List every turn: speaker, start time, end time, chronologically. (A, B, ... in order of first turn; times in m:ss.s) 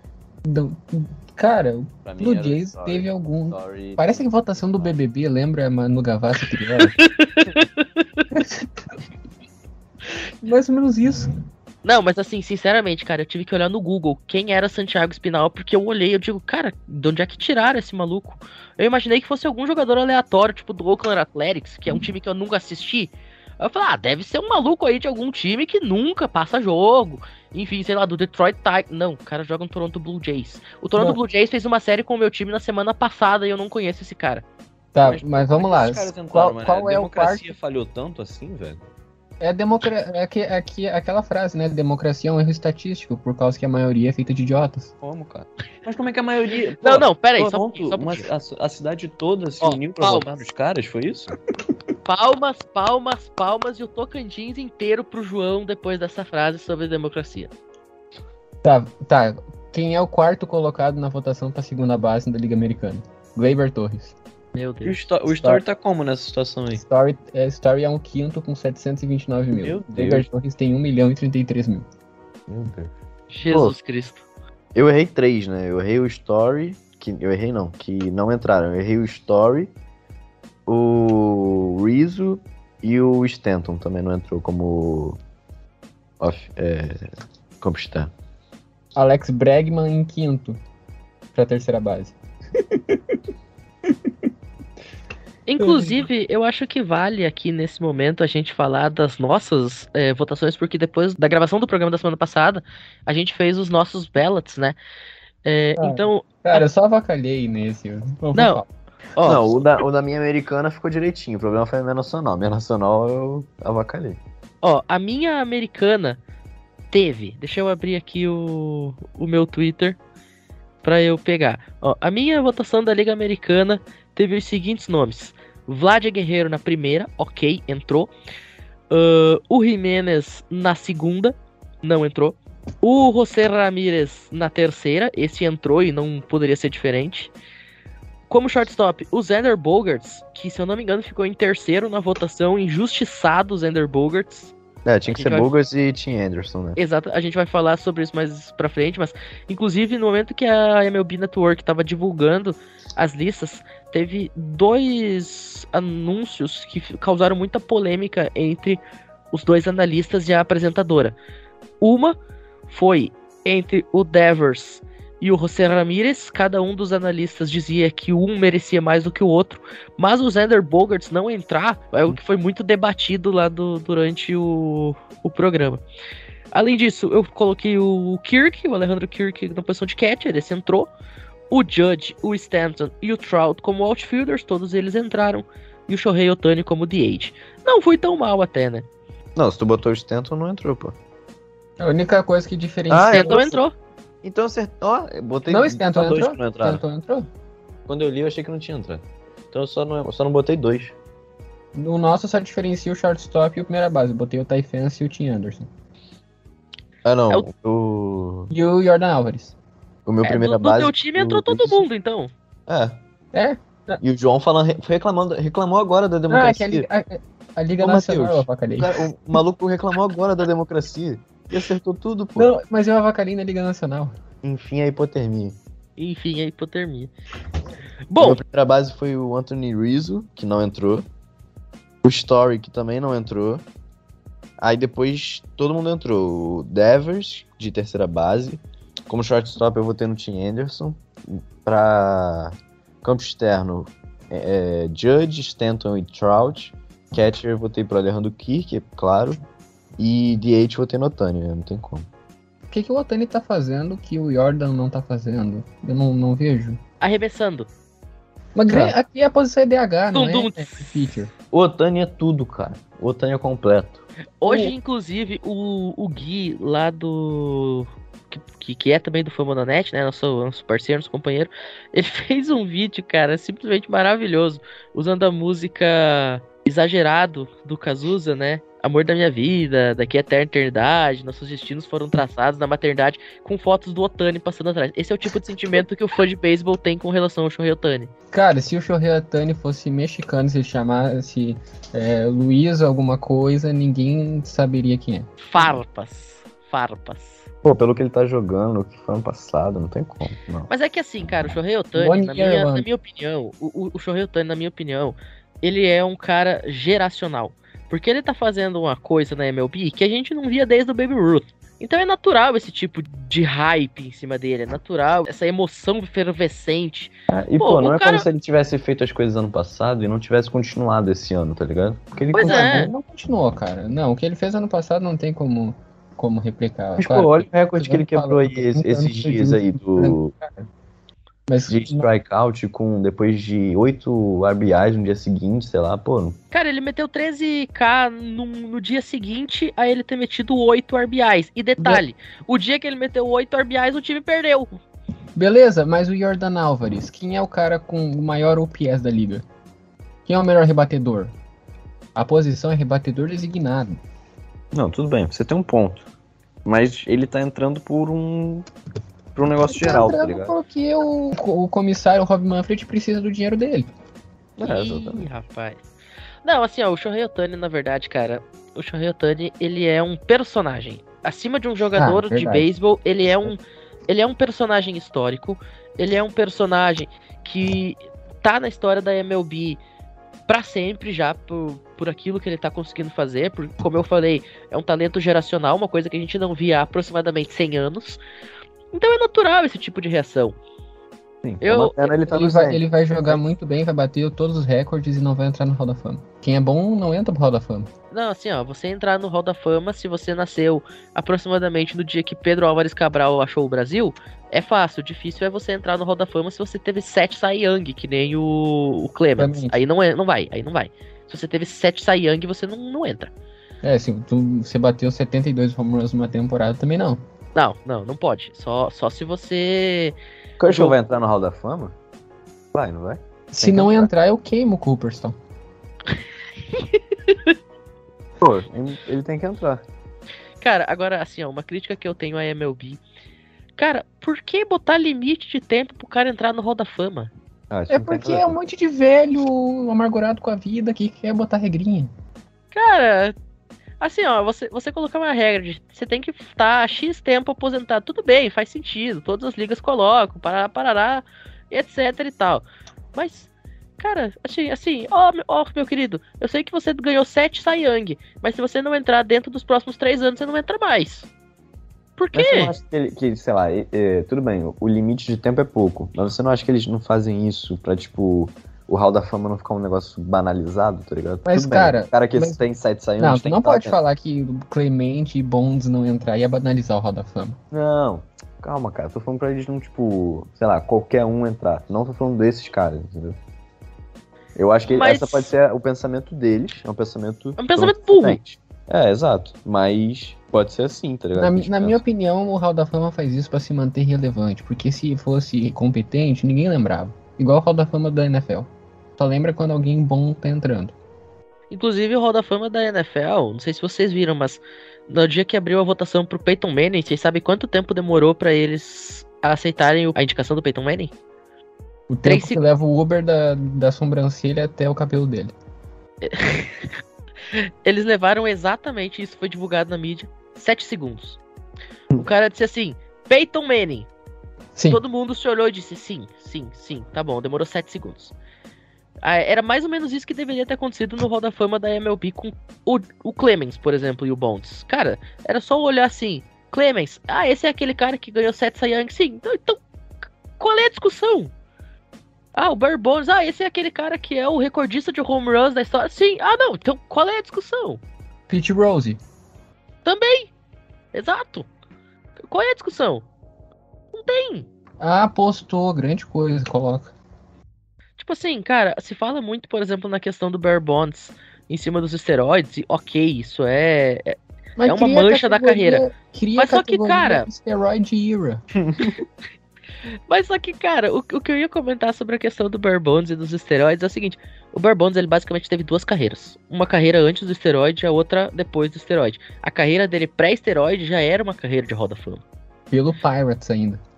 0:00.4-0:06.9 A
0:02.0-0:04.9 B
0:06.8-0:07.6 C
0:08.3-0:08.7 A
0:10.4-0:11.3 A
0:11.8-0:34.4 C
0:34.9-0:37.5 A
0:35.0-0:38.8 B
0:39.4-0:44.9 A
0:45.0-0:51.4 B
0:46.8-0:48.3 C
0:49.6-0:50.2 C
0:52.0-0:57.5 C
0:58.6-1:04.2 A
1:04.5-1:05.0 C
1:04.8-1:06.8 B
1:06.7-1:11.8 A
1:09.5-1:10.3 B
1:12.5-1:12.9 B
1:13.3-1:14.2 C
1:14.7-1:19.7 B
1:20.7-1:25.2 B
1:26.2-1:27.1 B
1:27.6-1:28.1 B
1:28.9-1:30.6 A
1:31.3-1:33.2 A
1:35.5-1:44.8 C
1:35.6-1:36.1 A
1:45.4-1:46.6 C
1:45.8-1:48.7 A
1:48.3-1:48.6 C
1:49.1-1:49.4 C
1:49.2-1:54.2 B
1:54.6-1:56.2 C
1:56.9-2:00.0 C
2:00.8-2:08.1 C
2:08.9-2:17.3 C
2:18.3-2:24.5 C
2:24.8-2:26.8 B
2:25.1-2:25.5 C
2:26.8-2:38.8 C
2:39.3-2:41.2 C
2:41.8-2:42.2 C
2:42.7-2:55.8 C
2:56.5-3:00.9 C
3:01.5-3:08.9 C
3:09.4-3:11.0 B
3:11.8-3:13.5 A
3:12.9-3:13.6 B
3:13.1-3:13.7 C
3:14.2-3:16.8 B
3:15.5-3:17.3 A
3:17.9-3:20.9 B
3:21.7-3:25.7 A
3:27.0-3:28.5 B
3:28.5-3:29.6 A
3:30.0-3:31.8 B
3:30.2-3:32.3 C
3:32.7-3:33.0 B
3:33.3-3:34.0 A
3:34.0-3:36.8 B
3:36.3-3:39.4 A
3:37.8-3:42.5 B
3:42.4-3:44.1 A
3:44.4-3:45.6 B
3:46.0-3:47.1 C
3:48.1-3:48.4 C
3:48.2-3:51.0 B
3:52.0-3:53.6 B
3:54.6-4:09.4 B
4:10.0-4:12.1 B
4:12.7-4:16.8 A
4:17.0-4:17.7 C
4:18.5-4:21.3 A
4:20.1-4:20.9 C
4:21.5-4:24.0 B
4:24.4-4:48.1 C
4:24.4-4:24.7 A
4:48.3-4:55.3 A
4:55.5-4:57.4 C
4:57.6-5:00.7 B
5:00.7-5:18.2 C
5:01.9-5:02.8 A
5:17.3-5:22.8 B
5:22.3-5:22.9 C
5:22.3-5:30.7 A
5:27.0-5:30.3 B
5:31.5-5:32.0 A
5:31.7-5:36.4 B
5:36.5-5:44.7 C
5:41.8-5:42.0 A
5:45.4-5:49.4 A
5:50.2-5:51.3 A
5:52.1-5:54.0 A
5:54.7-5:56.0 B
5:56.6-5:58.7 B
5:59.3-6:00.5 B
5:59.7-6:03.9 A
6:04.6-6:05.8 C
6:04.6-6:05.2 B
6:06.4-6:19.8 C
6:12.0-6:12.7 A
6:20.5-6:28.2 C
6:28.9-6:30.6 C
6:31.4-6:32.8 B
6:31.6-6:32.2 C
6:32.3-6:37.9 A
6:38.1-6:53.3 C
6:49.4-6:49.8 A
6:53.8-6:57.2 A
6:57.5-7:01.0 C
7:00.6-7:01.9 B
7:02.7-7:04.1 B
7:03.5-7:05.4 A
7:06.7-7:07.5 C
7:08.4-7:09.8 B
7:10.6-7:13.0 C
7:13.8-7:17.3 C
7:17.7-7:18.5 B
7:17.9-7:22.1 A
7:22.7-7:23.4 C
7:24.0-7:41.3 C
7:42.2-7:42.7 C
7:42.3-7:54.0 B
7:51.5-7:52.6 A
7:53.2-7:57.6 A
7:57.7-8:03.4 B
8:04.6-8:12.0 B
8:04.9-8:05.5 C
8:07.6-8:08.4 C
8:11.3-8:20.9 A
8:21.7-8:31.1 C
8:32.1-8:35.5 A
8:32.2-8:32.6 C
8:36.2-8:36.9 C
8:37.5-8:41.4 C
8:42.2-8:44.1 C
8:44.8-8:45.0 A
8:44.9-8:48.3 C
8:49.2-8:59.8 C
9:00.6-9:01.5 C
9:02.5-9:08.0 C
9:08.5-9:09.2 A
9:10.0-9:10.5 C
9:11.1-9:11.7 C
9:12.4-9:13.2 C
9:14.1-9:14.7 C
9:15.0-9:17.1 A
9:18.2-9:26.0 C
9:24.8-9:28.6 A
9:26.6-9:27.5 C
9:30.3-9:42.4 C
9:42.9-9:44.0 A